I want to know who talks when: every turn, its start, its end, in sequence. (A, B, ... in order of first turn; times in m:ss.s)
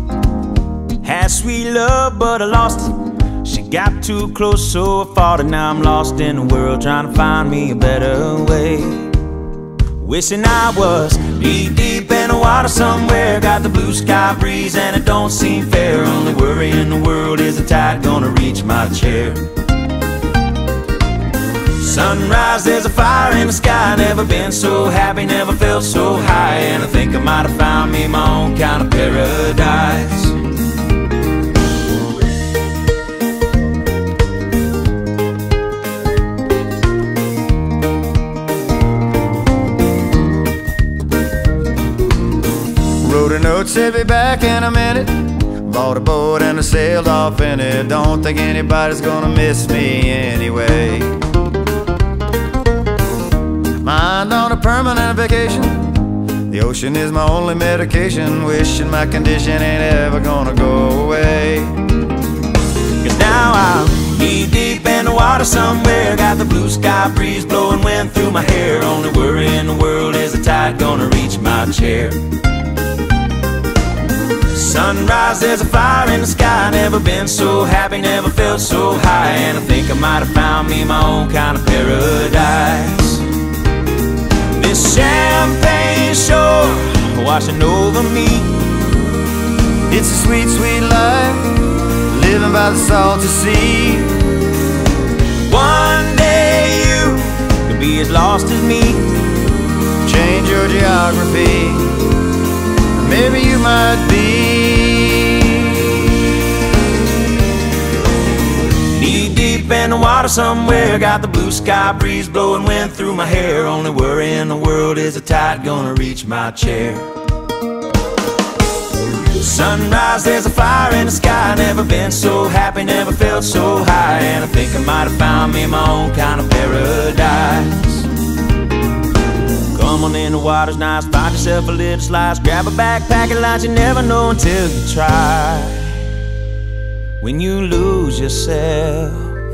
0:01.0-0:09.2 A
0:10.0-0:19.5 A
0:21.7-0:30.5 A
0:43.0-0:51.2 B
0:53.8-1:01.8 B
1:03.0-1:12.2 A
1:14.4-1:23.3 A
1:24.5-1:28.6 A
1:29.9-1:34.2 B
1:35.4-1:39.2 A
1:40.0-1:42.1 B
1:43.0-1:46.4 B
1:48.8-1:57.1 A
1:59.2-2:08.1 A
2:09.7-2:16.2 A
2:17.2-2:19.4 A